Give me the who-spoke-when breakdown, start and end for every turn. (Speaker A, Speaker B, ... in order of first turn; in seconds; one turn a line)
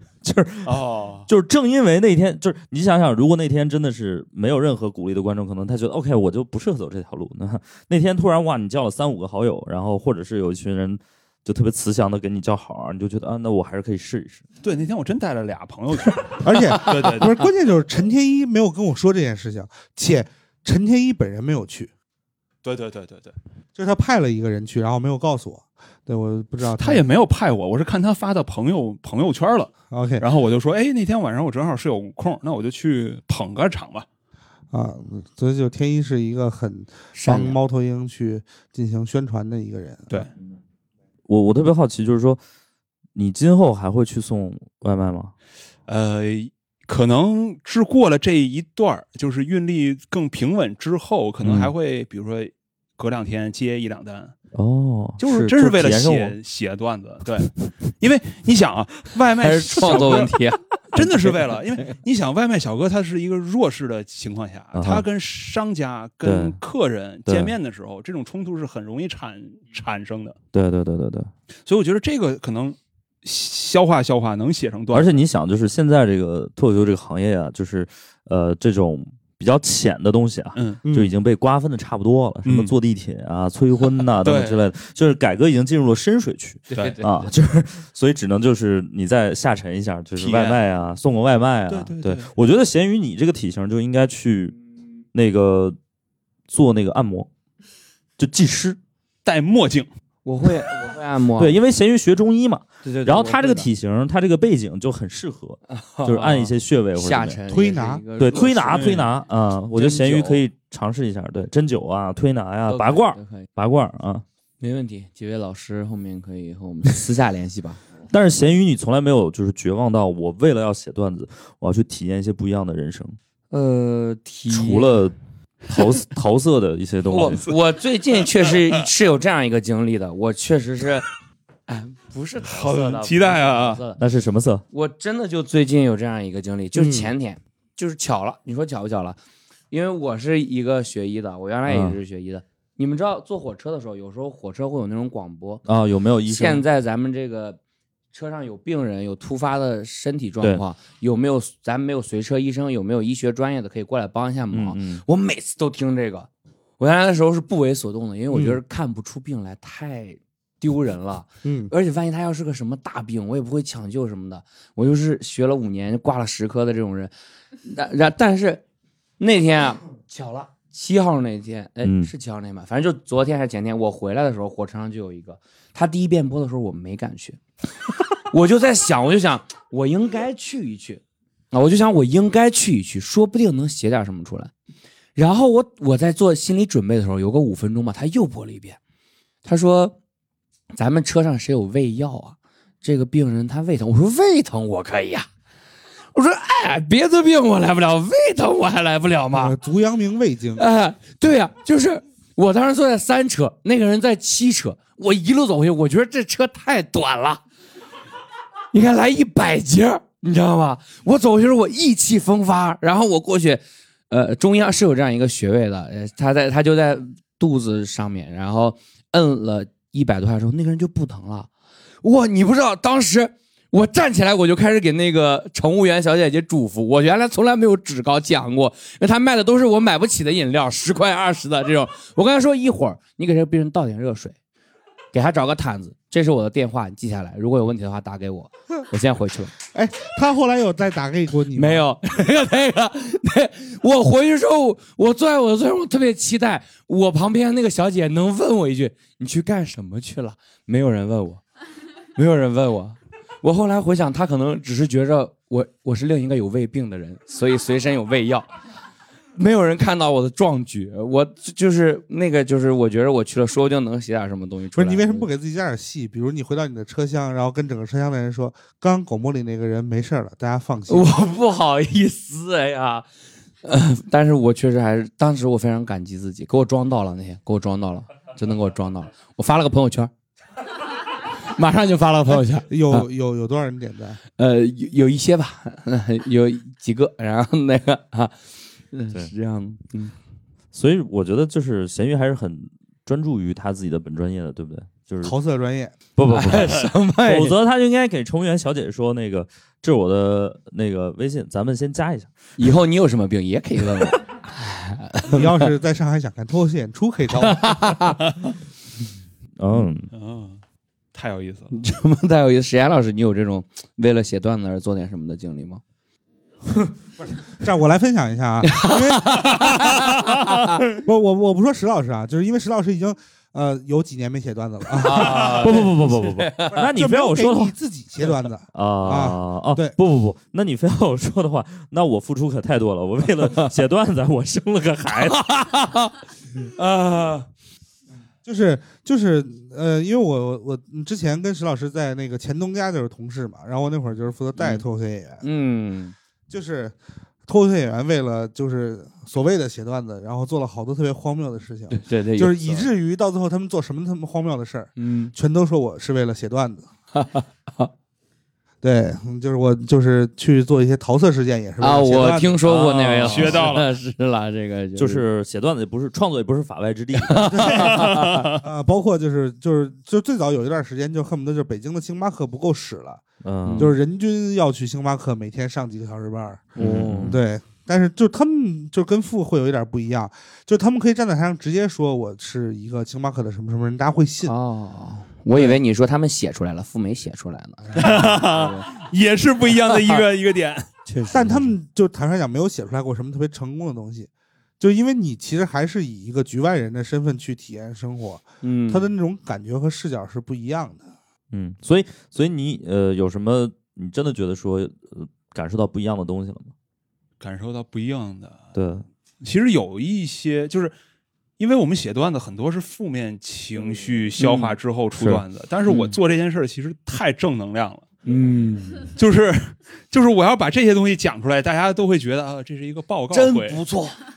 Speaker A: 0.2-14.4
Speaker B: 0.6-1.3
Speaker B: 14.6-17.4
Speaker C: 16.4-21.9
Speaker B: 22.6-23.3
Speaker C: 23.8-27.0
Speaker B: 26.6-34.1
Speaker C: 29.9-30.2
Speaker C: 34.7-40.2
Speaker D: 37.1-37.6
Speaker A: 41.3-42.4
Speaker A: 43.1-45.3
Speaker B: 45.9-54.4
Speaker A: 51.4-51.7
Speaker A: 54.5-56.4
Speaker B: 55.2-60.3
Speaker D: 59.4-61.9
Speaker B: 60.9-70.4
Speaker A: 64.7-65.0
Speaker A: 66.2-66.6
Speaker A: 67.3-67.5
Speaker A: 70.5-71.3
Speaker B: 71.7-75.1
Speaker A: 74.9-94.6
Speaker B: 80.5-80.8
Speaker C: 80.8-81.1
Speaker B: 82.4-82.8
Speaker B: 84.2-84.6
Speaker D: 86.7-87.3
Speaker B: 90.2-90.6
Speaker B: 91.7-92.3
Speaker A: 95.1-95.8
Speaker A: 96.5-97.3
Speaker A: 98.2-98.8
Speaker B: 99.2-99.9
Speaker D: 100.2-101.6
Speaker A: 101.4-107.4
Speaker D: 102.8-103.7
Speaker D: 105.7-109.0
Speaker C: 107.5-108.0
Speaker A: 108.2-114.2
Speaker B: 108.7-109.1
Speaker D: 109.8-110.4
Speaker D: 112.7-113.5
Speaker D: 114.6-117.8
Speaker A: 118.1-123.2
Speaker D: 123.5-125.0
Speaker A: 124.5-125.1
Speaker A: 125.7-127.5
Speaker D: 127.1-131.1
Speaker B: 127.2-127.6
Speaker B: 128.4-128.8
Speaker D: 131.7-134.0
Speaker B: 132.4-133.8
Speaker A: 134.0-134.6
Speaker D: 134.7-139.2
Speaker C: 136.8-137.1
Speaker D: 139.7-145.6
Speaker A: 141.7-142.0
Speaker A: 145.6-146.6
Speaker D: 146.3-147.6
Speaker D: 148.1-167.1
Speaker A: 154.5-155.0
Speaker C: 158.3-158.6
Speaker C: 161.4-161.7
Speaker D: 167.6-168.6
Speaker D: 169.2-177.4
Speaker A: 171.8-172.1
Speaker D: 178.2-184.5
Speaker D: 185.2-188.8
Speaker D: 189.4-190.0
Speaker D: 190.7-195.3
Speaker D: 196.2-199.6
Speaker C: 199.3-200.6
Speaker D: 200.6-207.4
Speaker D: 208.7-221.5
Speaker D: 222.0-234.3
Speaker D: 235.1-239.5
Speaker C: 239.7-241.8
Speaker D: 241.5-251.4
Speaker D: 252.2-258.5
Speaker D: 259.4-265.3
Speaker C: 264.7-271.1
Speaker D: 270.9-273.1
Speaker D: 273.6-280.1
Speaker D: 281.5-283.1
Speaker C: 282.6-284.2
Speaker D: 284.4-288.4
Speaker D: 288.9-290.1
Speaker A: 290.7-295.4
Speaker C: 295.2-295.9
Speaker A: 296.1-302.3
Speaker D: 296.3-297.6
Speaker D: 302.6-305.6
Speaker C: 305.3-307.9
Speaker D: 307.3-308.2
Speaker A: 309.6-310.1
Speaker B: 310.1-310.6
Speaker B: 311.1-311.7
Speaker D: 311.7-315.8
Speaker C: 317.5-319.8
Speaker D: 318.6-320.8
Speaker C: 321.0-325.5
Speaker D: 325.0-326.9
Speaker A: 325.3-327.7
Speaker C: 326.9-329.9
Speaker A: 328.7-335.5
Speaker D: 333.5-333.8
Speaker D: 335.1-337.5
Speaker C: 338.4-345.4
Speaker D: 344.6-344.9
Speaker D: 345.4-346.1
Speaker C: 346.5-346.9
Speaker C: 347.5-356.9
Speaker D: 351.9-352.9
Speaker D: 355.0-355.4
Speaker D: 357.1-357.9
Speaker C: 358.8-362.6
Speaker D: 361.8-365.2
Speaker A: 362.6-363.6
Speaker B: 363.3-363.9
Speaker A: 365.0-367.6
Speaker D: 367.2-368.5
Speaker C: 367.5-373.2
Speaker B: 367.9-368.6
Speaker A: 373.4-373.9
Speaker D: 373.6-373.9
Speaker C: 373.8-376.7
Speaker D: 376.8-377.4
Speaker A: 376.8-377.4
Speaker C: 377.2-384.5
Speaker D: 384.4-388.9
Speaker B: 388.0-390.9
Speaker D: 391.0-391.8
Speaker C: 391.3-394.3
Speaker C: 394.8-401.0
Speaker D: 398.6-399.1
Speaker A: 401.5-406.7
Speaker B: 407.4-408.6
Speaker A: 408.7-409.0
Speaker B: 409.4-410.9
Speaker B: 411.6-418.1
Speaker D: 414.4-414.7
Speaker A: 415.2-415.4
Speaker D: 415.9-416.2
Speaker D: 418.2-419.1
Speaker B: 419.1-423.8
Speaker D: 423.3-424.2